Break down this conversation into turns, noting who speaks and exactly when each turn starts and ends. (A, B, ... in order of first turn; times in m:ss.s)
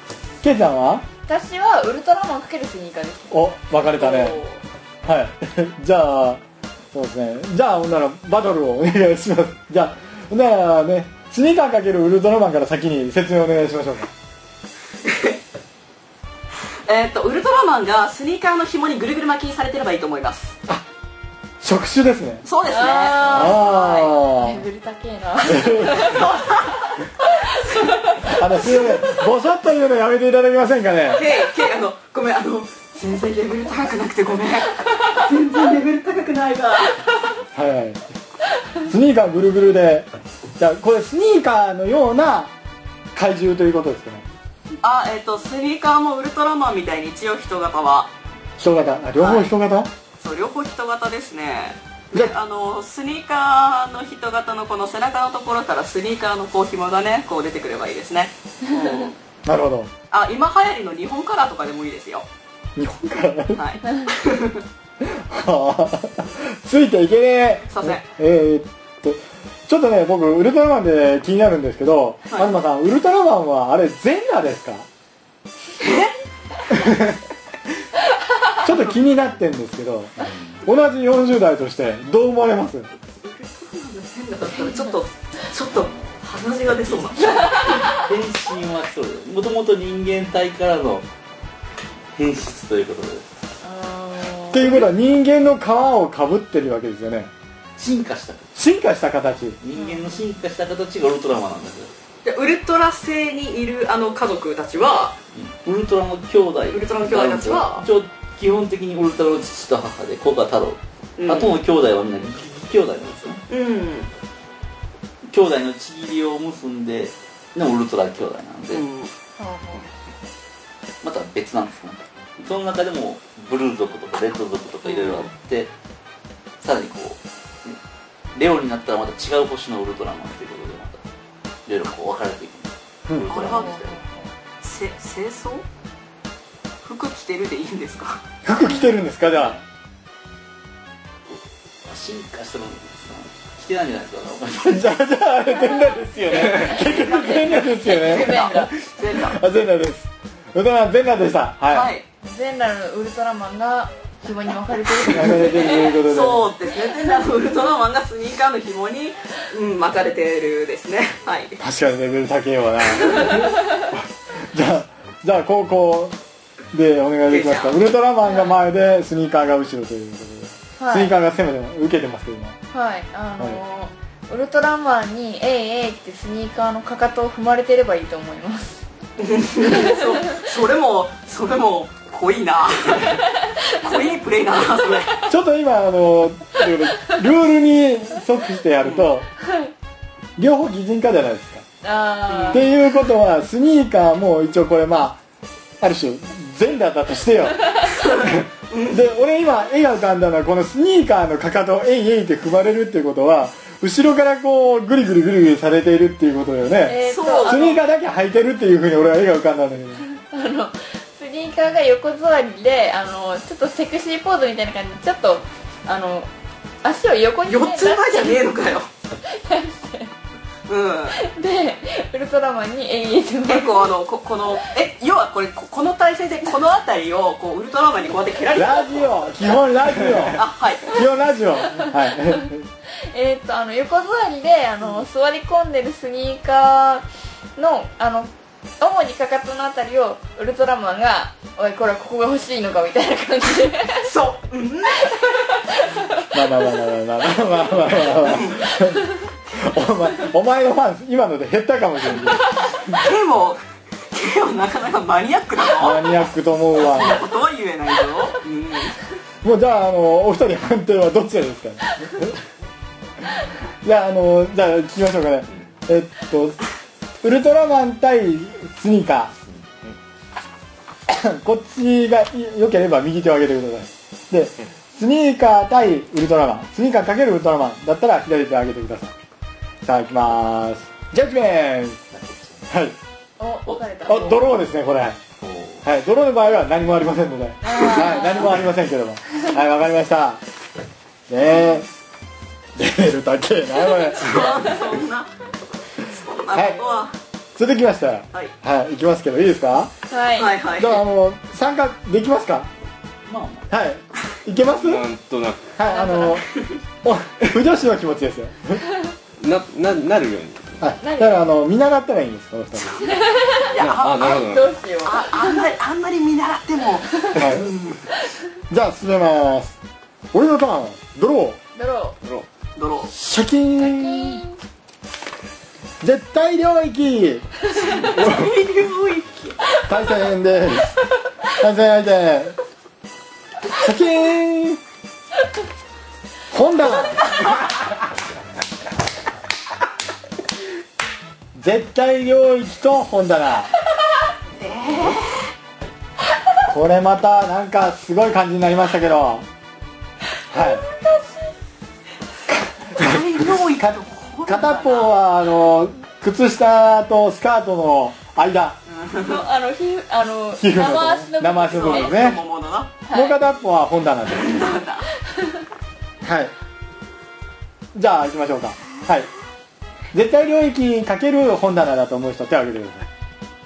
0:00.4-0:01.1 A
0:01.3-0:03.4 B
0:03.3-0:04.4 A
0:03.8-0:04.6 C
0:05.0-0:14.1 A
0:15.0-0:15.4 C
0:16.9-0:20.6 C
0:21.6-0:22.4 A
0:22.4-0:23.5 C
0:22.7-0:26.3 B
0:23.2-0:24.6 A
0:25.4-0:26.2 A
0:25.9-0:27.0 C
0:27.3-0:27.9 B
0:28.3-0:31.2 A
0:31.1-0:37.1 C
0:37.5-0:38.0 A
0:38.9-0:42.5 A
0:43.1-0:44.3 A
0:44.8-0:48.1 C
0:48.6-0:49.9 A
0:49.2-0:49.5 C
0:50.2-0:59.2 C
0:59.4-0:59.9 A
1:00.1-1:02.3 C
1:02.8-1:03.6 A
1:03.6-1:04.6 C
1:05.0-1:14.9 A
1:07.7-1:08.1 C
1:15.8-1:16.1 C
1:16.7-1:17.2 A
1:18.6-1:22.9 A
1:20.2-1:20.6 D
1:23.2-1:27.9 C
1:26.8-1:31.1 D
1:27.2-1:27.9 B
1:32.1-1:33.3 D
1:33.6-1:34.8 B
1:34.5-1:37.3 A
1:37.8-1:38.5 D
1:38.6-1:39.6 A
1:39.6-1:41.9 D
1:42.2-1:45.2 C
1:45.4-1:53.4 D
1:46.7-1:47.9 C
1:51.2-1:51.6 C
1:53.5-1:54.1 C
1:55.3-1:58.9 D
1:58.7-1:59.1 C
1:59.4-1:59.9 B
2:01.0-2:05.7 D
2:04.8-2:05.3 C
2:06.6-2:07.8 D
2:08.3-2:11.0 D
2:11.7-2:14.0 D
2:13.3-2:13.9 C
2:13.5-2:14.0 B
2:14.6-2:15.6 C
2:16.8-2:18.2 C
2:18.4-2:19.6 A
2:21.3-2:24.8 D
2:24.6-2:31.9 A
2:26.3-2:28.7 B
2:27.8-2:29.4 C
2:31.7-2:32.0 C
2:32.2-2:36.0 B
2:35.0-2:36.5 A
2:35.7-2:41.6 C
2:41.6-2:46.2 A
2:46.7-2:52.6 A
2:47.3-2:47.8 C
2:48.3-2:48.5 B
2:50.8-2:51.1 B
2:52.7-2:58.8 B
2:59.2-3:05.2 C
2:59.6-3:00.4 B
3:03.1-3:04.0 B
3:05.3-3:09.3 A
3:08.8-3:09.1 C
3:09.4-3:09.7 B
3:10.4-3:11.6 A
3:11.8-3:12.7 B
3:12.3-3:12.6 C
3:12.5-3:15.2 A
3:15.8-3:30.1 A
3:17.9-3:19.0 C
3:26.9-3:27.8 B
3:27.0-3:27.8 C
3:30.1-3:36.3 B
3:36.8-3:38.5 B
3:37.5-3:38.9 C
3:39.2-3:40.1 B
3:40.7-3:41.2 C
3:41.1-3:43.9 B
3:43.5-3:49.0 C
3:48.5-3:52.7 A
3:50.4-3:50.9 C
3:53.0-3:57.0 B
3:57.6-4:04.1 B
4:04.0-4:05.3 C
4:05.1-4:06.1 B
4:06.3-4:12.9 A
4:08.3-4:08.5 C
4:12.8-4:13.6 C
4:14.1-4:16.1 C
4:15.8-4:17.2 A
4:16.8-4:19.0 C
4:19.4-4:22.4 A
4:23.2-4:26.6 A
4:27.2-4:29.4 A
4:31.1-4:39.1 A
4:39.8-4:42.0 A
4:42.1-4:42.7 D
4:42.7-4:43.0 A
4:43.4-4:44.4 B
4:43.7-4:44.4 D
4:44.1-4:45.2 A
4:45.4-4:45.9 D
4:45.8-4:50.4 A
4:47.6-4:48.6 B
4:51.3-4:51.9 A
4:52.8-4:54.6 A
4:54.0-4:55.3 C
4:56.0-4:57.2 C
4:56.5-4:56.8 A
4:57.6-4:59.9 A
5:00.1-5:00.5 B
5:00.4-5:01.0 C
5:00.8-5:02.7 A
5:03.3-5:03.7 D
5:03.7-5:05.1 A
5:04.8-5:05.8 E
5:05.8-5:06.5 A
5:05.9-5:06.4 B
5:07.0-5:08.9 A
5:09.4-5:10.8 E
5:10.8-5:13.1 A
5:11.0-5:11.4 B
5:13.0-5:14.5 C
5:13.0-5:15.6 B
5:13.8-5:14.8 E
5:15.0-5:18.0 C
5:17.4-5:17.7 A
5:18.7-5:19.8 A
5:20.3-5:21.6 A
5:21.8-5:22.2 B
5:22.8-5:23.1 C
5:23.1-5:24.4 A
5:23.8-5:24.6 B
5:26.0-5:27.5 A
5:27.7-5:29.6 C
5:28.1-5:28.5 A
5:29.9-5:31.0 A
5:31.5-5:32.6 A
5:33.7-5:34.8 A
5:36.5-5:38.0 A
5:41.6-5:43.7 A
5:44.6-5:45.5 C
5:46.7-5:49.5 A
5:50.5-5:50.8 A
5:50.5-5:51.5 B
5:52.5-5:58.8 A
5:53.0-5:55.1 C
5:58.9-5:59.4 C
5:59.2-6:02.2 B
6:00.6-6:02.4 A
6:01.7-6:02.9 C
6:03.1-6:03.4 B
6:03.1-6:04.7 A
6:04.3-6:05.1 C
6:05.3-6:05.6 B
6:06.2-6:06.5 A
6:07.9-6:09.3 A
6:10.1-6:13.1 A